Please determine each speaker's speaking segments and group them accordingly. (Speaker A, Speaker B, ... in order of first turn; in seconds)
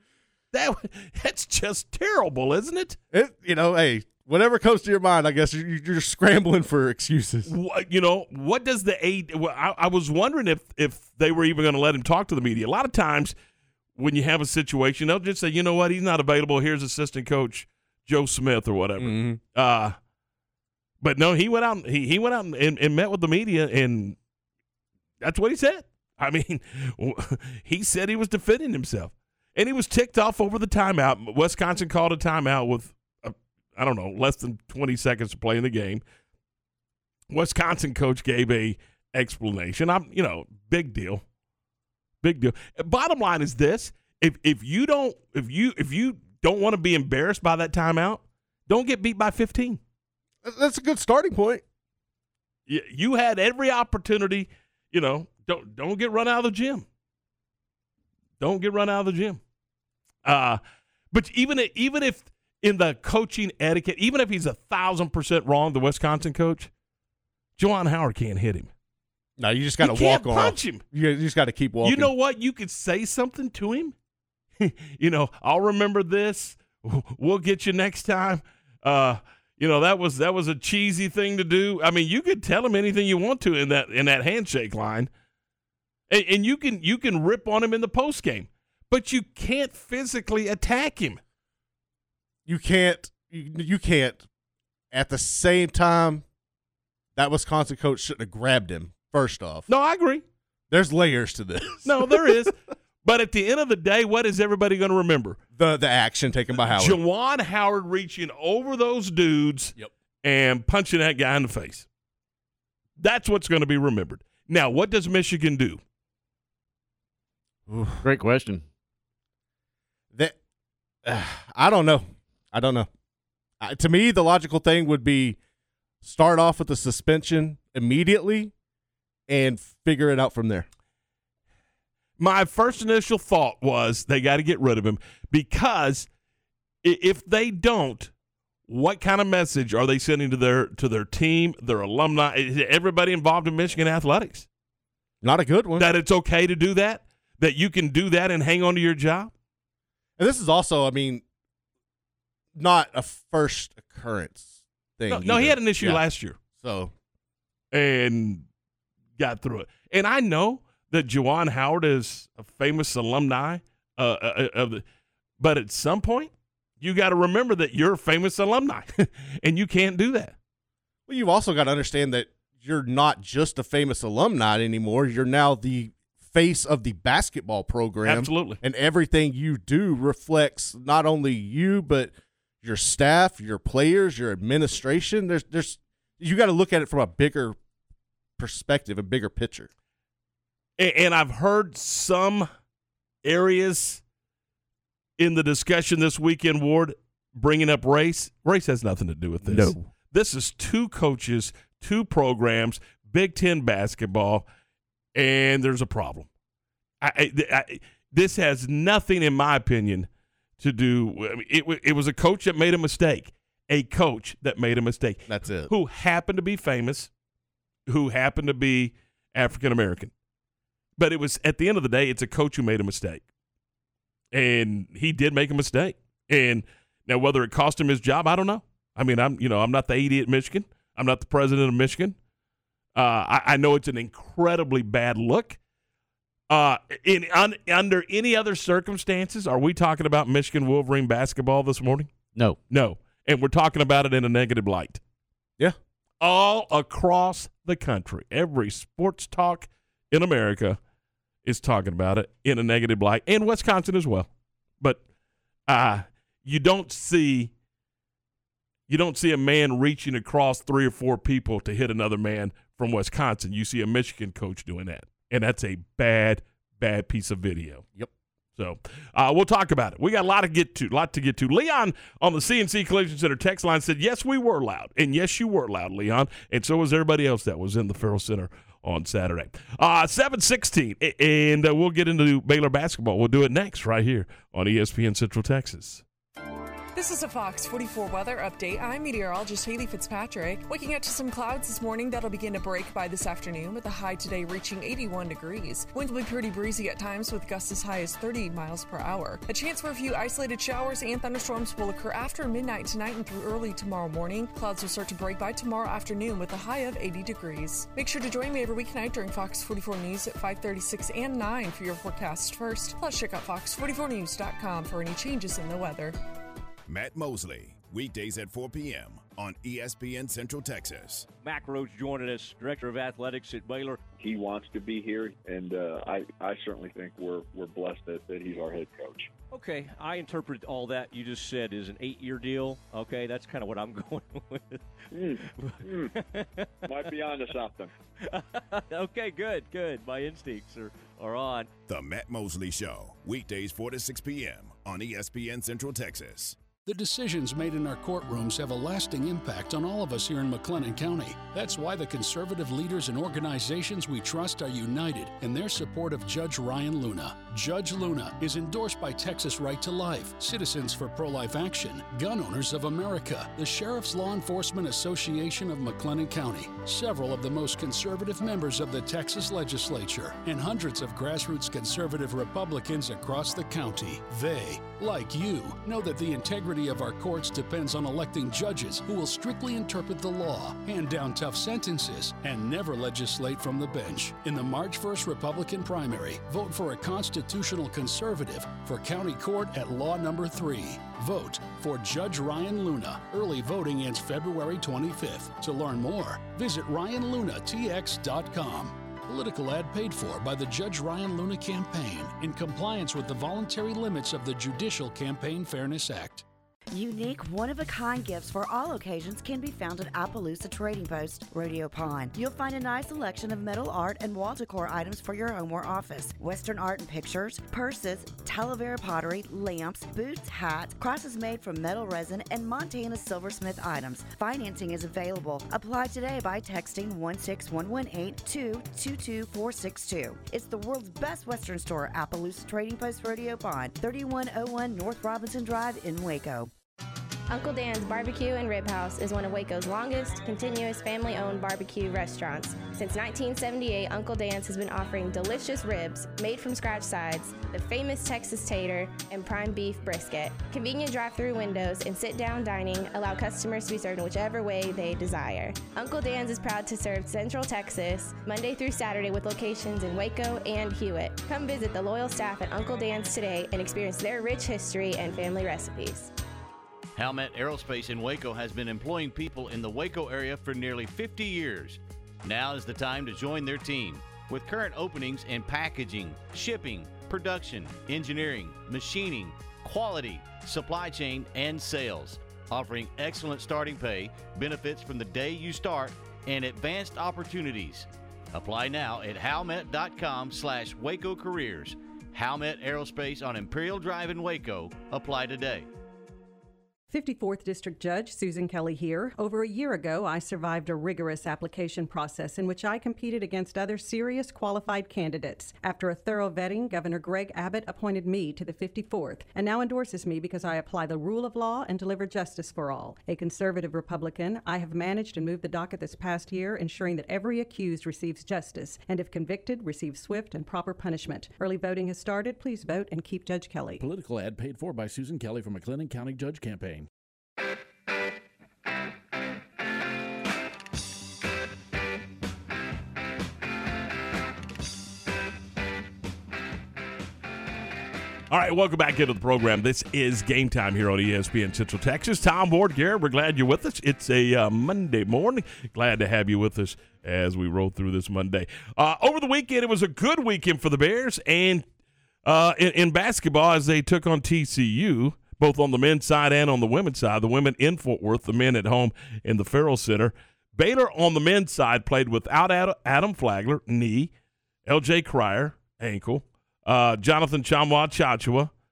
Speaker A: 0.5-3.0, 7.4-13.3, 13.9-20.0, 21.0-24.2, 25.2-36.0, 37.3-41.2, 42.2-49.8, 52.7-56.9, 58.4-59.4, 60.2-60.6, 61.1-66.7, 67.6-68.7, 69.8-70.8, 71.8-73.9, 74.6-85.1, 86.1-91.2, 99.7-100.2, 101.8-105.4, 106.7-111.9, 113.0-115.8, 132.2-136.1, 136.8-138.1, 138.7-144.5, 145.8-149.3, 155.1-156.4, 157.7-158.4, 159.2-164.8, 165.4-170.3, 178.0-178.6, 190.8-192.5, 193.2-194.0, 195.2-204.4, 205.1-206.3, 207.0-217.1, 217.9-220.1, 221.0-223.2, 224.3-232.2, 232.9-235.6, 236.5-242.1, 242.7-245.0, 246.2-250.8, 251.4-254.3, 255.7-257.5, 258.9-267.8, 268.6-286.0, 538.5-551.9, 552.4-564.3, 564.9-568.7
Speaker B: 3.1-7.5, 19.0-19.4, 50.4-51.6, 69.4-72.1, 92.5-94.2, 94.9-96.2, 97.2-99.7, 100.7-102.3, 105.5-107.0, 117.7-118.0, 121.0-122.9, 123.6-125.4, 126.0-128.5, 129.3-130.7, 145.2-145.9, 150.2-151.2, 152.5-156.0, 156.5-156.9, 171.1-182.1, 182.6-187.6, 188.4-189.7, 199.4-199.9, 215.3-215.7
Speaker C: 118.0-118.6, 467.1-495.9
Speaker D: 286.9-316.2
Speaker E: 316.9-321.3, 341.9-346.6
Speaker F: 321.3-324.0, 329.5-334.8, 335.4-337.3, 338.3-341.7
Speaker G: 324.2-329.3, 335.1-336.1, 336.9-337.9
Speaker H: 346.9-406.4
Speaker I: 406.9-436.6
Speaker J: 437.5-466.3
Speaker K: 497.1-524.0
Speaker L: 524.0-527.1